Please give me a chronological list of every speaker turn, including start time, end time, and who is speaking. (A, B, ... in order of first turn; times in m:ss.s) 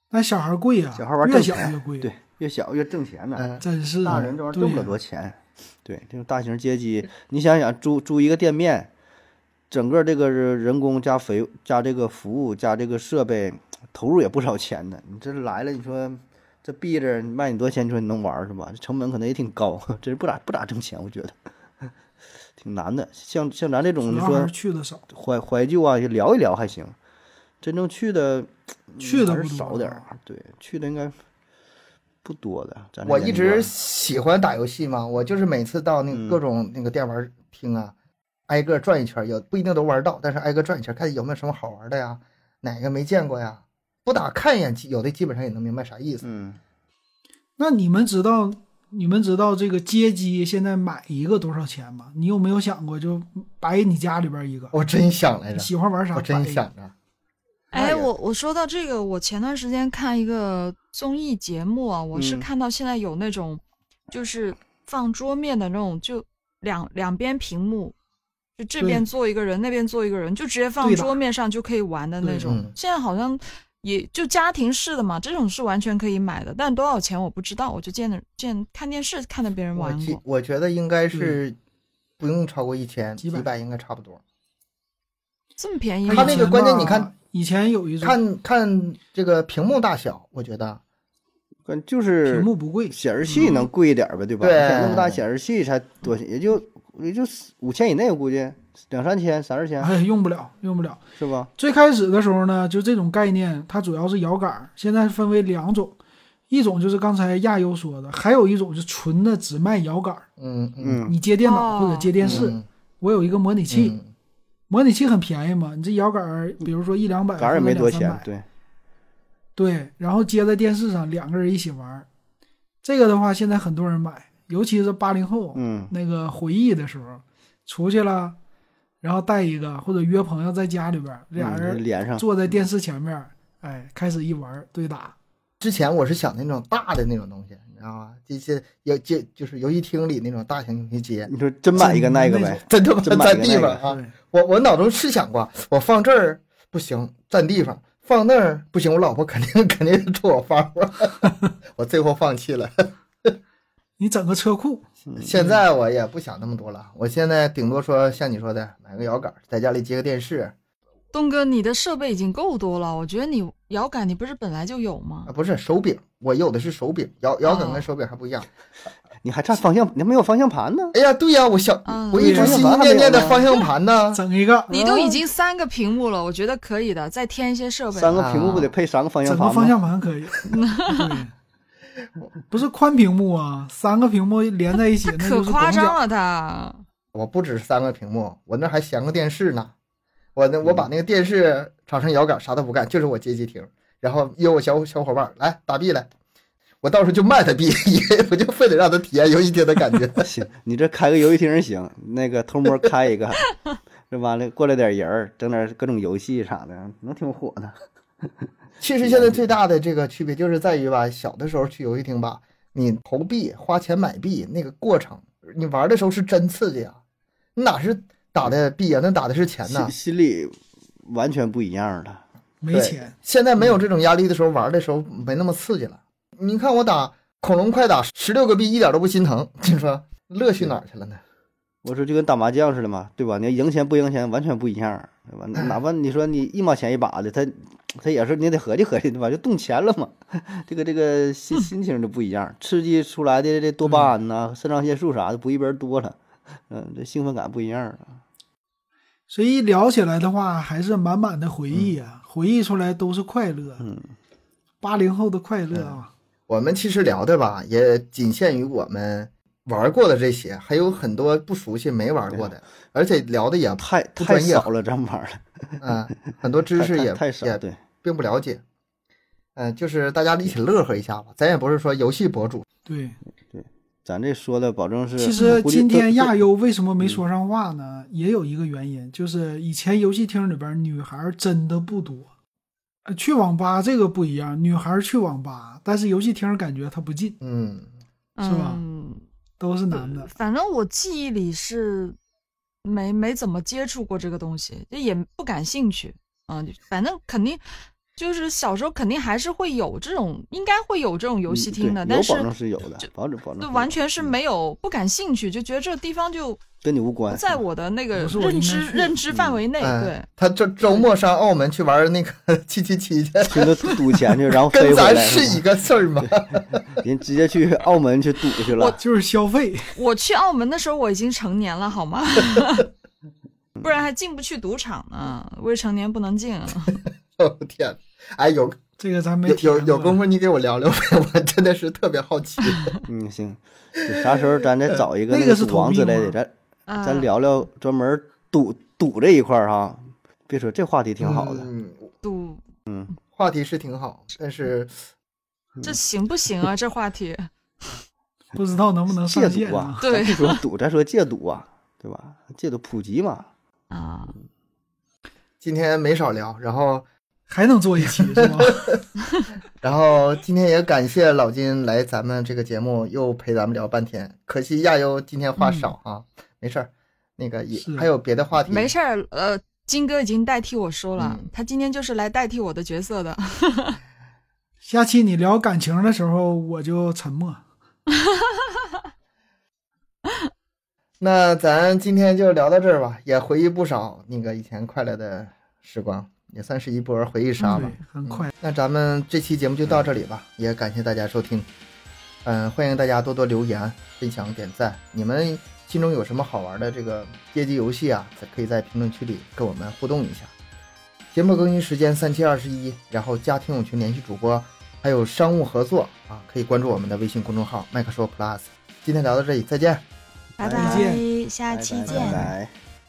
0:00.1-0:02.1 A
0:01.0-0:03.4 B
0:03.4-0:04.3 C
0:03.6-0:05.0 A
0:04.0-0:08.9 B
0:09.7-0:21.9 B
0:22.6-0:24.5 B
0:24.0-0:25.0 A
0:25.1-0:27.0 B
0:27.6-0:31.2 B
0:29.0-0:30.0 A
0:32.2-0:33.7 B
0:33.1-0:37.9 C
0:36.1-0:36.4 B
0:38.5-0:46.2 C
0:46.2-0:46.6 B
0:47.6-0:54.7 A
0:54.7-0:56.9 C
0:55.5-0:56.7 A
0:57.7-1:08.0 D
0:57.7-0:58.1 C
1:02.1-1:02.5 B
1:08.6-1:20.2 D
1:08.8-1:09.0 A
1:10.8-1:11.2 A
1:12.2-1:12.6 A
1:12.4-1:12.7 C
1:19.7-1:21.6 C
1:21.1-1:21.4 A
1:22.2-1:24.2 C
1:23.2-1:23.5 A
1:25.6-1:26.5 D
1:26.1-1:28.2 A
1:26.1-1:27.1 C
1:28.0-1:30.8 C
1:31.7-1:39.9 B
1:32.3-1:33.0 A
1:33.3-1:33.7 D
1:34.4-1:35.2 C
1:39.8-1:41.0 A
1:41.2-1:41.5 B
1:41.6-1:46.0 A
1:46.5-1:50.3 A
1:50.4-1:51.0 C
1:50.8-1:51.2 B
1:51.1-1:54.0 A
1:51.4-1:52.1 D
1:52.2-1:52.6 B
1:52.2-1:52.7 C
1:53.7-1:54.1 C
1:54.7-1:58.3 A
1:57.4-1:58.4 B
1:59.6-2:02.1 A
2:02.8-2:08.4 A
2:05.6-2:05.9 B
2:09.0-2:15.2 A
2:11.4-2:12.3 B
2:15.6-2:21.3 C
2:21.3-2:23.8 B
2:21.8-2:22.6 A
2:22.7-2:33.4 C
2:23.8-2:24.1 A
2:34.0-2:35.6 A
2:35.2-2:40.5 C
2:41.1-2:45.3 D
2:45.3-2:48.5 C
2:47.4-2:47.9 D
2:49.2-2:51.0 B
2:50.9-2:54.2 C
2:51.8-2:52.6 D
2:52.2-2:53.4 B
2:52.2-2:52.5 A
2:54.1-2:54.7 A
2:54.7-2:58.7 D
2:54.7-2:55.2 B
2:57.9-2:59.8 B
2:58.2-2:58.7 C
2:59.3-3:01.3 A
3:00.4-3:01.2 D
3:02.5-3:06.0 A
3:05.1-3:06.8 D
3:07.1-3:09.7 C
3:10.4-3:16.1 C
3:16.8-3:20.2 C
3:20.2-3:23.6 B
3:24.1-3:28.5 B
3:28.8-3:37.0 C
3:29.0-3:29.4 B
3:37.6-3:39.9 C
3:39.6-3:42.2 B
3:42.6-3:43.2 A
3:42.7-3:51.2 C
3:51.8-4:06.2 B
4:03.8-4:04.1 A
4:06.7-4:08.2 B
4:09.3-4:13.8 A
4:13.8-4:14.1 B
4:14.8-4:16.1 A
4:16.5-4:24.7 C
4:23.8-4:27.8 B
4:25.8-4:28.6 C
4:29.6-4:32.6 C
4:32.9-4:33.2 A
4:33.5-4:36.3 B
4:35.2-4:42.3 A
4:43.1-4:47.4 A
4:47.4-4:47.9 C
4:48.4-4:49.2 D
4:48.4-4:48.8 A
4:49.6-4:50.3 A
4:49.9-4:52.2 D
4:52.8-4:57.6 D
4:58.2-5:03.1 D
5:01.5-5:04.4 B
5:03.6-5:06.6 D
5:06.8-5:07.6 B
5:07.3-5:10.3 D
5:08.2-5:09.2 A
5:09.3-5:09.6 B
5:09.8-5:14.0 C
5:13.4-5:15.6 B
5:14.7-5:16.8 C
5:16.9-5:19.0 B
5:18.7-5:19.0 D
5:19.0-5:20.0 A
5:20.0-5:22.9 D
5:23.8-5:27.0 D
5:27.4-5:28.8 C
5:29.0-5:30.2 A
5:29.4-5:33.0 C
5:32.7-5:33.0 D
5:33.1-5:41.7 B
5:34.1-5:34.4 C
5:35.3-5:36.4 A
5:36.9-5:37.3 D
5:41.2-5:42.1 C
5:42.2-5:42.6 D
5:42.9-5:43.1 B
5:43.3-5:45.0 C
5:45.8-5:47.9 D
5:48.5-5:50.0 A
5:49.1-5:53.5 B
5:50.0-5:50.6 D
5:53.9-5:54.4 D
5:55.6-5:57.0 C
5:57.5-5:59.0 A
5:58.2-5:59.0 C
5:59.8-6:08.9 C
6:07.8-6:08.1 A
6:08.7-6:14.0 D
6:11.2-6:11.5 C
6:14.8-6:17.6 A
6:18.2-6:18.6 D
6:21.2-6:31.7 C
6:27.6-6:27.9 D
6:27.6-6:28.5 A
6:32.4-6:40.5 C
6:41.3-6:50.0 C
6:50.6-6:52.5 D
6:50.6-6:52.7 B
6:50.7-6:51.3 A
6:52.1-6:52.5 A